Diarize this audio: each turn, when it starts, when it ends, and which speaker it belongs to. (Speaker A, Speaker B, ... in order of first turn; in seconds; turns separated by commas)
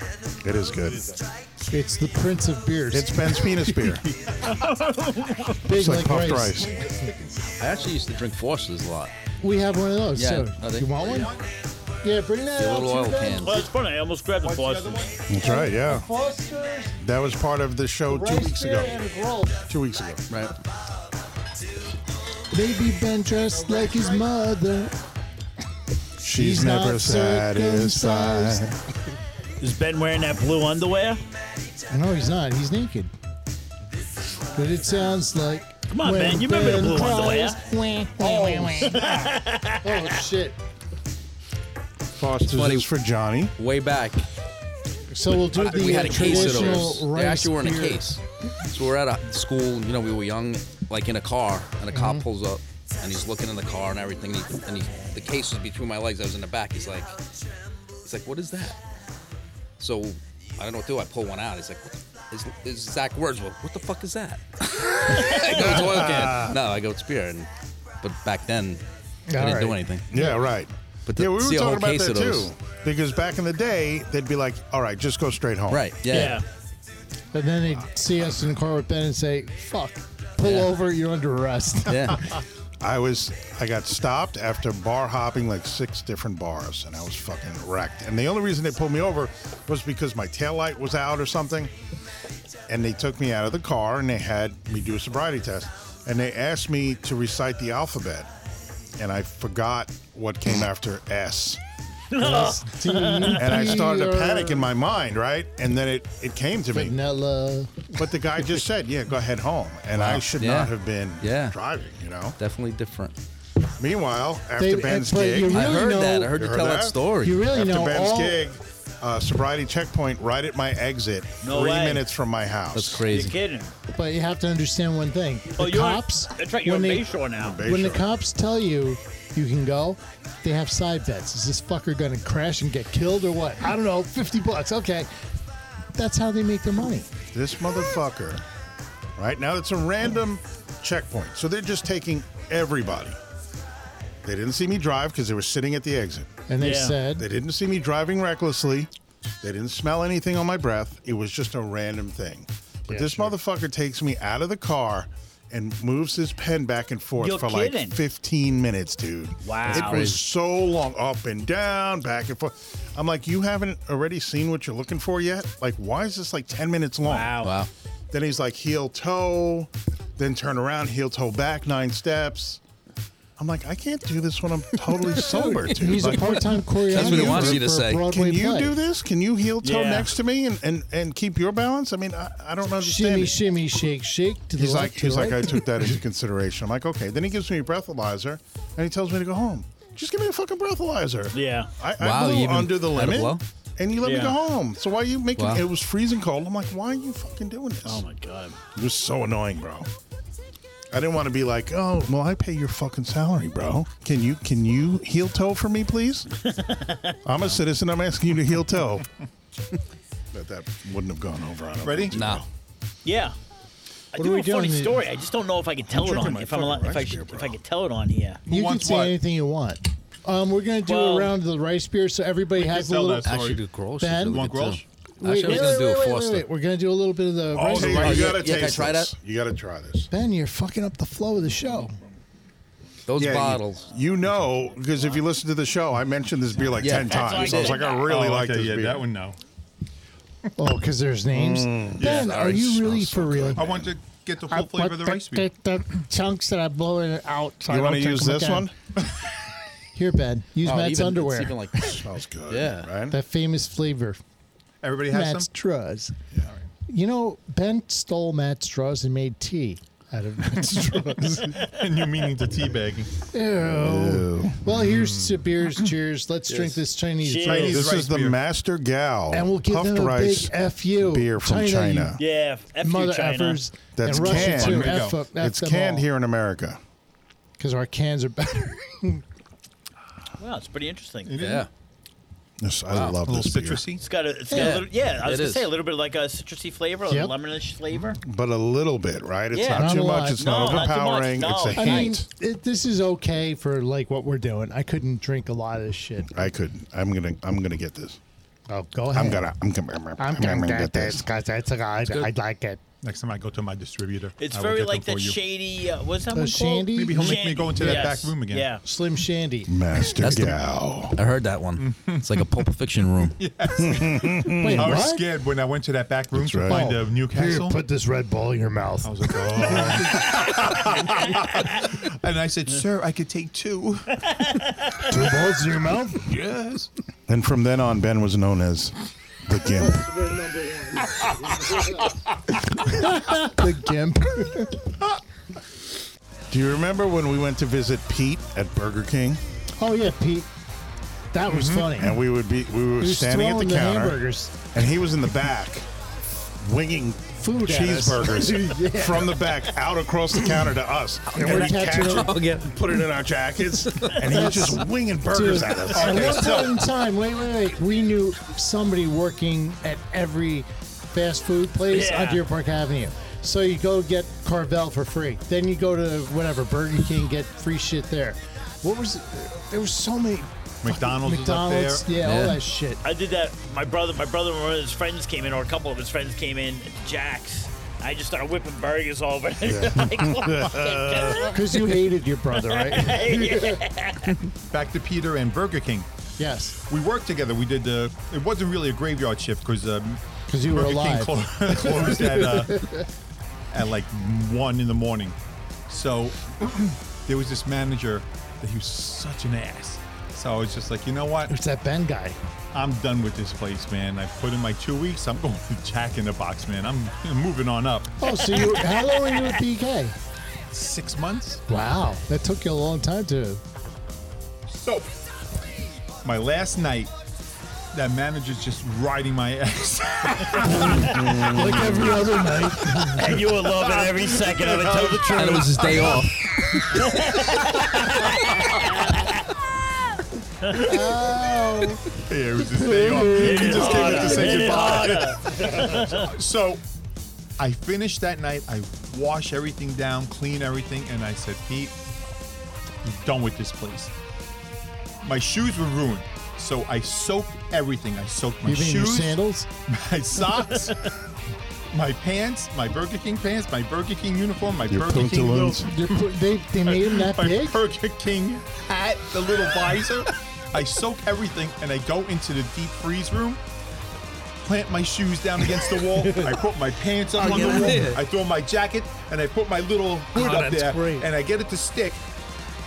Speaker A: 0.4-1.1, Speaker B: 1.7-3.8, Speaker A: 2.9-4.1, Speaker C: 4.4-5.6, Speaker B: 5.6-6.9, Speaker A: 5.7-6.8, Speaker D: 6.6-8.0, Speaker E: 7.6-9.1, Speaker B: 9.4-11.3, Speaker E: 10.1-11.2, Speaker B: 12.0-13.7, Speaker E: 12.6-13.6, Speaker C: 13.4-15.1, Speaker D: 14.4-15.3, Speaker A: 15.3-16.1, Speaker B: 15.4-17.0, Speaker A: 17.0-18.9, Speaker B: 18.1-19.6, Speaker A: 19.6-20.2, Speaker E: 20.3-20.5, Speaker B: 22.5-24.9, Speaker A: 26.2-28.7, Speaker B: 26.3-28.7, Speaker C: 29.6-31.2, Speaker B: 31.9-33.1, Speaker B: 34.5-40.6, Speaker C: 35.9-37.6, Speaker D: 38.2-39.1, Speaker C: 38.4-40.1, Speaker A: 42.2-43.5, Speaker E: 42.5-42.9, Speaker E: 43.6-44.2, Speaker B: 45.1-48.1, Speaker D: 45.3-47.0, Speaker E: 45.6-57.1, Speaker B: 51.9-52.2, Speaker E: 58.0-58.8, Speaker E: 59.8-67.5, Speaker A: 65.1-66.6, Speaker E: 68.0-68.8, Speaker B: 69.3-70.3, Speaker E: 69.3-70.1, Speaker A: 70.1-75.9, Speaker E: 71.1-72.5, Speaker E: 75.7-76.4, Speaker C: 76.1-76.4, Speaker B: 76.1-76.4, Speaker B: 77.3-82.4, Speaker E: 80.4-80.7, Speaker E: 81.9-82.2, Speaker A: 82.8-91.7, Speaker A: 92.7-98.3, Speaker A: 99.0-101.6, Speaker C: 102.1-103.4, Speaker B: 102.2-104.7, Speaker A: 103.3-107.0, Speaker B: 106.7-107.9, Speaker A: 107.9-112.4, Speaker E: 109.9-111.6, Speaker E: 112.4-113.2, Speaker A: 113.8-123.1, Speaker B: 114.6-116.3, Speaker E: 115.5-117.4, Speaker B: 117.2-118.4, Speaker C: 121.4-122.0, Speaker E: 122.7-123.3, Speaker C: 123.1-123.7, Speaker B: 123.9-127.1, Speaker C: 125.6-127.6, Speaker A: 127.4-128.1, Speaker B: 127.6-135.1, Speaker B: 135.9-137.1, Speaker A: 137.3-138.4, Speaker A: 139.2-143.2, Speaker A: 144.2-146.4, Speaker B: 146.5-147.3, Speaker C: 146.6-147.0, Speaker A: 147.1-148.9, Speaker A: 149.4-167.4, Speaker B: 152.9-153.3, Speaker C: 157.2-158.0, Speaker C: 159.4-160.1, Speaker E: 159.7-160.2, Speaker C: 167.0-167.5, Speaker E: 167.4-167.7, Speaker A: 168.1-172.6, Speaker A: 173.4-183.4, Speaker B: 175.1-178.8, Speaker E: 175.9-178.0, Speaker C: 179.6-180.1, Speaker B: 182.8-185.9, Speaker A: 184.6-198.1, Speaker C: 191.3-191.7, Speaker E: 192.0-193.4, Speaker C: 194.0-194.3, Speaker E: 195.4-195.7, Speaker C: 197.8-198.6, Speaker A: 198.7-199.9, Speaker A: 200.9-206.3, Speaker C: 206.5-207.1, Speaker A: 207.2-209.1, Speaker A: 210.3-212.4, Speaker D: 211.8-212.2, Speaker E: 212.1-212.4, Speaker C: 213.0-213.3, Speaker C: 214.1-218.4, Speaker B: 214.2-215.0, Speaker A: 215.9-217.6, Speaker D: 218.5-219.1, Speaker B: 218.5-223.3, Speaker C: 220.8-221.3, Speaker D: 222.5-223.6, Speaker E: 223.2-226.5, Speaker B: 224.0-224.4, Speaker D: 224.2-224.8, Speaker B: 225.2-228.5, Speaker A: 227.5-230.1, Speaker D: 227.8-228.3, Speaker E: 227.8-229.1, Speaker B: 230.1-231.9, Speaker E: 233.1-233.8, Speaker A: 233.2-239.1, Speaker E: 236.8-237.8, Speaker C: 236.8-238.1, Speaker D: 237.8-239.4, Speaker B: 240.6-243.6, Speaker A: 241.3-243.9, Speaker D: 242.0-242.6, Speaker E: 242.1-242.4, Speaker D: 243.6-245.4, Speaker B: 244.5-248.7, Speaker A: 247.7-248.7, Speaker B: 249.9-251.6, Speaker E: 250.6-252.0, Speaker A: 251.8-253.2, Speaker E: 252.5-252.9, Speaker B: 253.1-254.2, Speaker D: 254.8-255.5, Speaker B: 255.1-256.1, Speaker D: 256.4-256.7, Speaker B: 256.9-261.6, Speaker D: 260.8-263.1, Speaker B: 263.3-267.9, Speaker A: 263.6-264.6, Speaker D: 264.7-265.7, Speaker E: 266.5-266.8, Speaker C: 267.2-267.8, Speaker D: 267.4-268.4, Speaker A: 267.5-272.2, Speaker B: 269.3-272.2, Speaker C: 272.2-273.6, Speaker B: 272.8-276.1, Speaker A: 273.9-276.8, Speaker D: 274.1-275.2, Speaker B: 277.6-279.2, Speaker C: 280.4-281.4, Speaker D: 281.2-281.7, Speaker E: 281.4-281.7, Speaker A: 282.6-283.8, Speaker E: 282.9-283.2, Speaker D: 283.2-284.0, Speaker C: 284.0-288.2, Speaker B: 284.5-284.8, Speaker E: 284.5-285.7, Speaker B: 287.1-287.3, Speaker A: 288.2-292.2, Speaker C: 289.5-292.1, Speaker B: 289.7-290.5, Speaker B: 291.7-296.3, Speaker A: 296.3-298.2, Speaker B: 298.7-299.5, Speaker A: 299.1-301.2, Speaker B: 300.2-302.8, Speaker D: 303.0-305.4, Speaker C: 304.4-308.8, Speaker B: 306.3-308.3, Speaker D: 306.9-308.7, Speaker B: 308.8-310.5, Speaker A: 309.7-311.2, Speaker E: 310.2-310.6, Speaker E: 311.1-313.4, Speaker D: 311.8-312.6, Speaker D: 313.2-317.8, Speaker A: 313.8-314.9, Speaker B: 314.5-315.2, Speaker A: 316.3-316.9, Speaker B: 316.7-320.2, Speaker D: 319.0-324.6, Speaker B: 325.0-326.2, Speaker D: 326.2-326.9, Speaker A: 327.3-330.1, Speaker B: 330.6-331.0, Speaker B: 332.7-334.9, Speaker A: 336.5-339.4, Speaker B: 339.8-340.5, Speaker B: 341.3-342.2, Speaker D: 341.5-342.0, Speaker A: 341.9-344.2, Speaker B: 343.0-344.6, Speaker A: 344.7-345.9, Speaker A: 346.6-356.6, Speaker B: 347.3-349.5, Speaker B: 351.3-352.3, Speaker E: 351.8-352.8, Speaker E: 353.9-354.2, Speaker B: 354.2-373.0, Speaker D: 355.9-356.9, Speaker C: 361.9-362.4, Speaker D: 370.8-372.1, Speaker E: 372.2-372.6, Speaker C: 373.0-381.8, Speaker A: 379.6-381.5, Speaker B: 381.5-383.8, Speaker C: 382.7-384.4, Speaker D: 384.7-386.1, Speaker B: 386.4-386.8, Speaker D: 386.8-393.0, Speaker B: 390.5-393.1, Speaker D: 393.7-395.4, Speaker D: 395.9-401.5, Speaker B: 401.5-402.4, Speaker D: 402.7-408.1, Speaker B: 408.2-410.1, Speaker D: 410.7-411.6, Speaker B: 411.7-413.6, Speaker D: 414.7-415.1, Speaker D: 416.2-417.1, Speaker D: 417.9-429.1, Speaker B: 420.6-423.3, Speaker A: 421.1-421.6, Speaker C: 423.1-426.2, Speaker E: 425.3-426.4, Speaker C: 426.8-429.4, Speaker B: 430.7-432.0, Speaker D: 430.7-431.4, Speaker D: 432.1-436.8, Speaker B: 432.7-435.1, Speaker C: 433.3-436.3, Speaker D: 437.6-441.9, Speaker D: 443.0-444.1, Speaker D: 445.2-451.2, Speaker B: 448.6-449.7, Speaker D: 451.9-463.6, Speaker A: 454.9-455.9, Speaker B: 455.8-457.8, Speaker D: 464.6-472.2, Speaker B: 466.1-466.6, Speaker E: 467.4-468.2, Speaker B: 467.4-468.1, Speaker B: 470.3-471.3